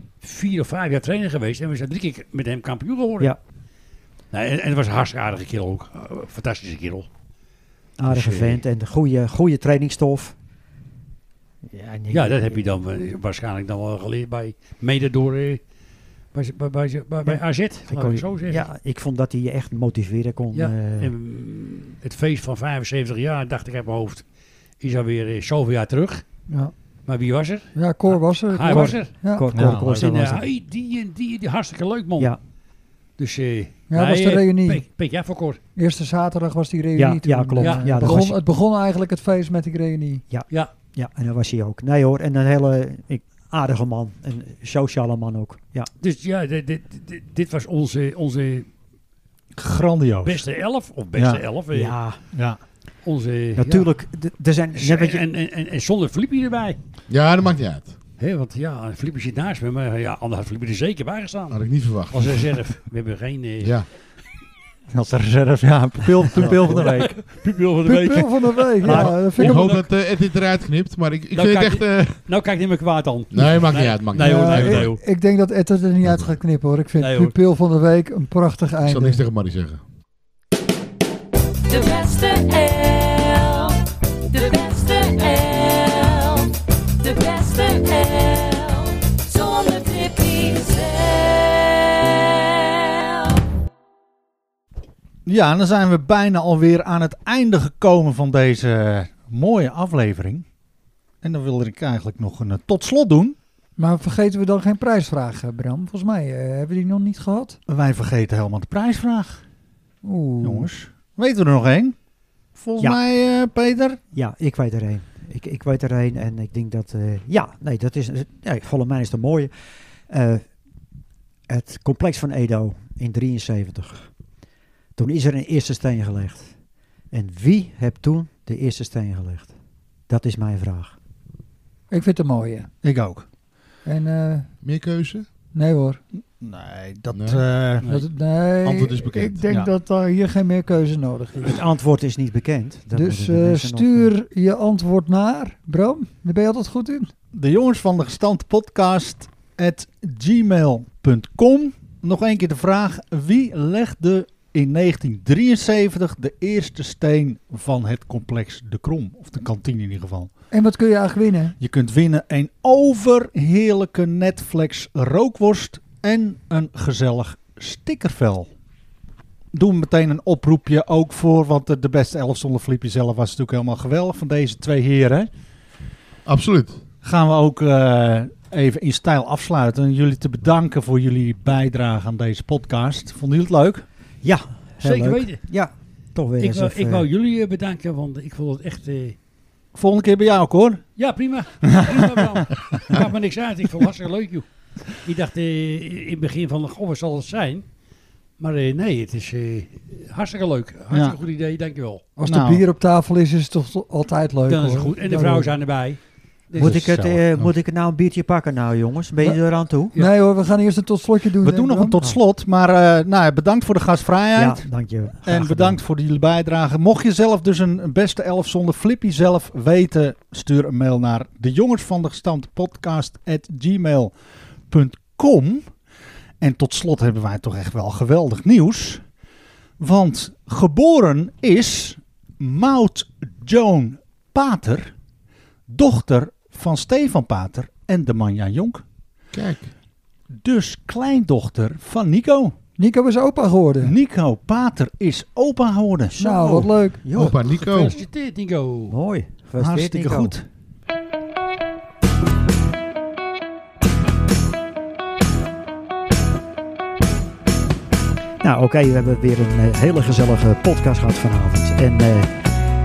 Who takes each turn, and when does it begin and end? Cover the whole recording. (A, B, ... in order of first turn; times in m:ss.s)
0:00.2-0:03.3 A
0:04.3-0:07.1 A
0:08.0-0:10.3 B
0:08.1-0:08.6 A
0:11.7-0:12.6 B
0:12.1-0:15.6 A
0:16.3-0:18.7 A
0:17.2-0:21.1 B
0:20.5-0:24.2 A
0:24.8-0:26.2 A
0:26.5-0:26.7 C
0:27.0-0:29.1 A
0:27.7-0:29.5 C
0:28.7-0:30.5 B
0:29.5-0:30.1 D
0:29.8-0:32.3 A
0:33.2-0:35.6 A
0:33.9-0:34.8 C
0:35.8-0:40.2 C
0:37.0-0:38.4 B
0:37.6-0:38.2 A
0:40.3-0:45.9 B
0:46.0-0:48.7 A
0:49.6-0:50.4 D
0:50.2-0:51.9 A
0:51.1-0:51.4 D
0:51.7-0:52.2 B
0:52.3-0:52.6 D
0:53.0-0:53.9 A
0:53.6-0:55.2 B
0:54.8-0:56.8 A
0:57.1-0:57.9 E
0:58.2-1:01.6 A
1:01.5-1:02.6 E
1:02.1-1:03.8 A
1:03.6-1:03.9 E
1:04.9-1:07.2 D
1:06.3-1:09.9 A
1:06.4-1:06.8 B
1:07.8-1:09.8 C
1:08.8-1:12.2 E
1:11.3-1:15.0 A
1:13.3-1:14.9 E
1:14.1-1:19.2 C
1:16.0-1:16.3 E
1:17.0-1:17.4 A
1:18.8-1:19.8 E
1:21.7-1:33.4 F
1:35.2-1:40.4 D
1:41.2-1:43.4 D
1:43.8-1:47.6 C
1:47.7-1:49.4 D
1:50.0-1:50.7 C
1:50.4-1:51.9 D
1:52.5-1:54.0 D
1:54.1-1:59.5 B
2:00.1-2:00.5 B
2:01.5-2:04.1 B
2:05.0-2:06.5 B
2:07.1-2:09.5 B
2:10.1-2:10.9 B
2:11.9-2:12.7 C
2:12.8-2:13.2 D
2:13.8-2:14.5 C
2:14.6-2:15.3 E
2:15.5-2:16.0 C
2:16.4-2:17.9 D
2:17.1-2:17.4 E
2:17.8-2:21.6 C
2:18.6-2:19.5 E
2:21.4-2:24.1 B
2:22.9-2:27.1 C
2:27.3-2:40.3 D
2:40.5-2:41.5 C
2:41.6-2:48.5 D
2:49.5-2:55.3 D
2:56.2-2:56.8 E
2:57.0-3:03.8 D
3:04.2-3:07.1 B
3:04.8-3:05.4 A
3:06.4-3:09.2 A
3:09.7-3:10.8 D
3:11.0-3:17.6 A
3:11.6-3:12.4 D
3:18.4-3:22.1 A
3:20.9-3:21.2 D
3:22.2-3:25.6 C
3:22.2-3:22.6 D
3:24.5-3:27.0 A
3:26.6-3:30.0 B
3:26.6-3:27.5 D
3:29.9-3:32.0 C
3:31.4-3:34.6 D
3:34.3-3:35.8 B
3:35.2-3:44.1 D
3:44.7-3:45.7 D
3:46.4-3:49.0 D
3:49.8-3:54.9 D
3:55.7-3:58.8 D
3:59.3-3:59.7 E
4:00.4-4:02.6 D
4:02.8-4:03.9 C
4:03.8-4:06.2 D
4:06.2-4:07.0 C
4:06.2-4:07.5 B
4:07.1-4:08.0 E
4:07.5-4:09.0 A
4:08.9-4:10.3 B
4:09.6-4:10.4 D
4:18.4-4:22.3 B